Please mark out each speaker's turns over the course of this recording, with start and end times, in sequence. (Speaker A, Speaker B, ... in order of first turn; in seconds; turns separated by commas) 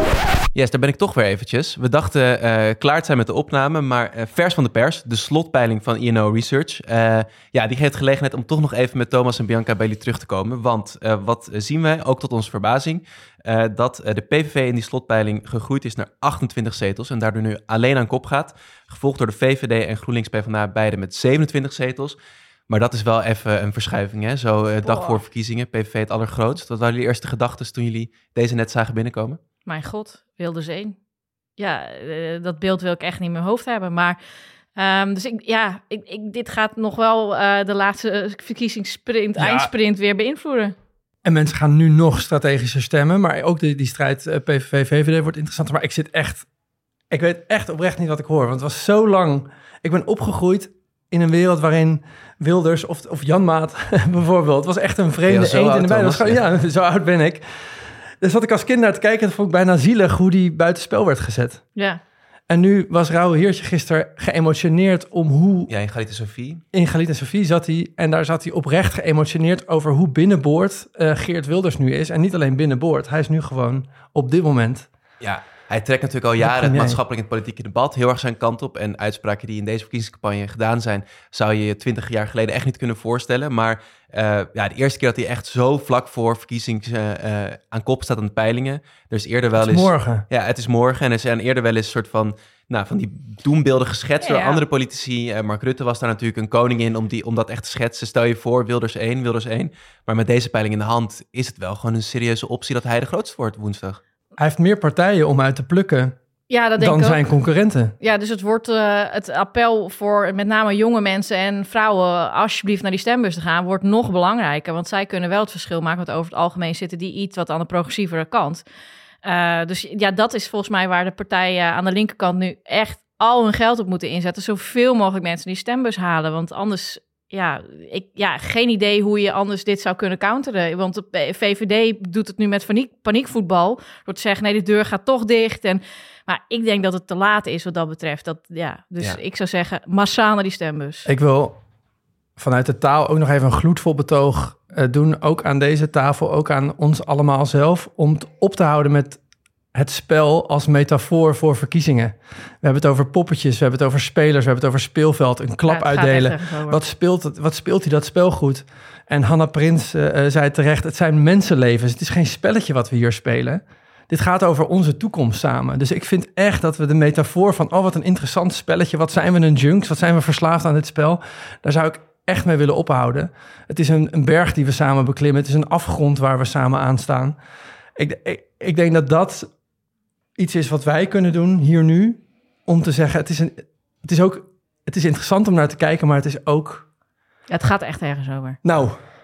Speaker A: 0.5-22.1, Speaker A: 22.7-29.4, Speaker B: 24.8-25.2, Speaker B: 29.6-30.9, Speaker B: 31.6-34.2, Speaker B: 34.8-40.7, Speaker C: 39.4-39.7, Speaker C: 41.2-46.5, Speaker C: 47.1-61.6, Speaker A: 55.2-56.4, Speaker C: 62.5-65.7, Speaker A: 65.7-66.6, Speaker C: 66.7-74.9, Speaker A: 75.2-104.0, Speaker C: 76.4-77.0, Speaker C: 89.5-90.2, Speaker B: 94.2-94.6, Speaker C: 104.4-106.2, Speaker B: 106.5-107.2, Speaker C: 106.8-107.9, Speaker B: 108.0-118.6, Speaker B: 119.2-141.1, Speaker C: 141.1-141.6, Speaker C: 142.4-149.2, Speaker C: 149.7-177.4, Speaker B: 155.7-156.8, Speaker C: 177.9-179.5, Speaker C: 180.3-186.9, Speaker B: 187.5-188.6, Speaker C: 188.6-189.0